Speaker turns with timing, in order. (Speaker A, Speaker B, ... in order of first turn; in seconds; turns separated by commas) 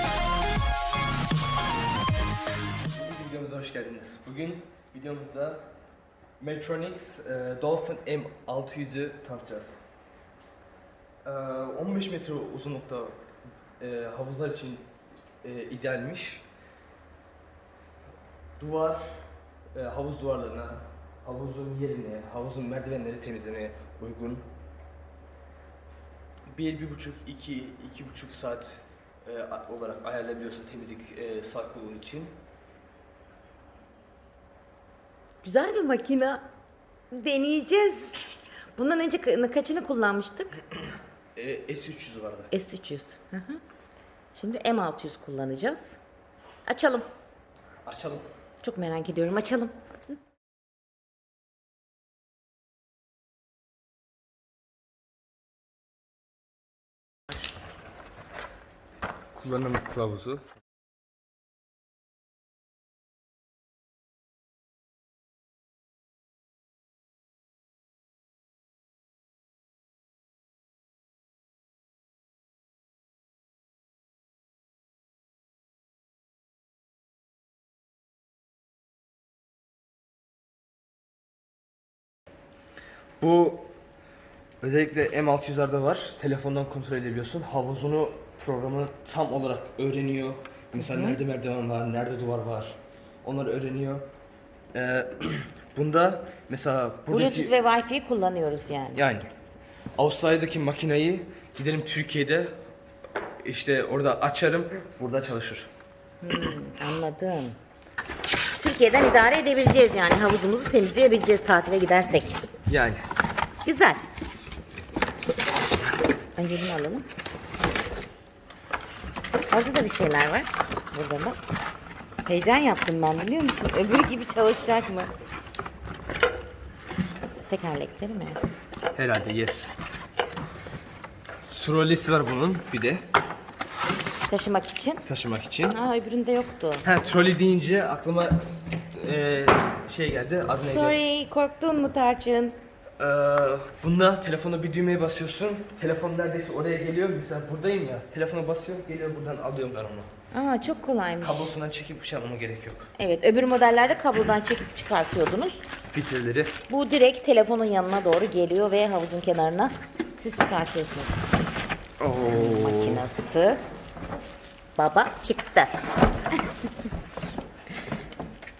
Speaker A: 2.8-5.6, Speaker A: 6.4-9.8, Speaker A: 11.2-13.2, Speaker A: 13.8-14.9, Speaker A: 15.4-16.4, Speaker A: 18.6-19.2, Speaker A: 19.7-24.5, Speaker A: 26.5-32.3, Speaker B: 35.4-36.5, Speaker B: 37.1-40.6, Speaker A: 41.3-42.5, Speaker B: 42.5-43.6, Speaker B: 44.3-46.0, Speaker B: 46.6-47.1, Speaker A: 47.8-48.2, Speaker B: 48.6-49.8, Speaker A: 59.3-60.5, Speaker A: 83.2-83.7, Speaker A: 84.6-94.0, Speaker B: 90.8-91.2, Speaker A: 94.7-97.5, Speaker B: 97.1-99.0, Speaker A: 98.9-99.3, Speaker A: 100.0-102.5, Speaker A: 103.4-105.7, Speaker B: 106.2-107.6, Speaker B: 108.6-112.4, Speaker A: 112.7-113.0, Speaker B: 113.6-114.0, Speaker B: 116.3-117.1, Speaker B: 119.5-121.4, Speaker B: 122.2-125.1, Speaker B: 127.5-128.4, Speaker A: 128.9-129.7, Speaker A: 131.5-133.0, Speaker B: 134.3-135.1, Speaker A: 135.0-135.8, Speaker B: 135.7-136.9, Speaker A: 136.8-141.0, Speaker B: 140.6-142.6, Speaker A: 143.0-150.1, Speaker B: 150.3-151.5, Speaker A: 151.2-152.9, Speaker B: 153.0-155.7, Speaker A: 155.9-156.5, Speaker B: 156.7-161.3, Speaker A: 162.0-163.1, Speaker B: 162.2-163.6, Speaker B: 164.7-165.8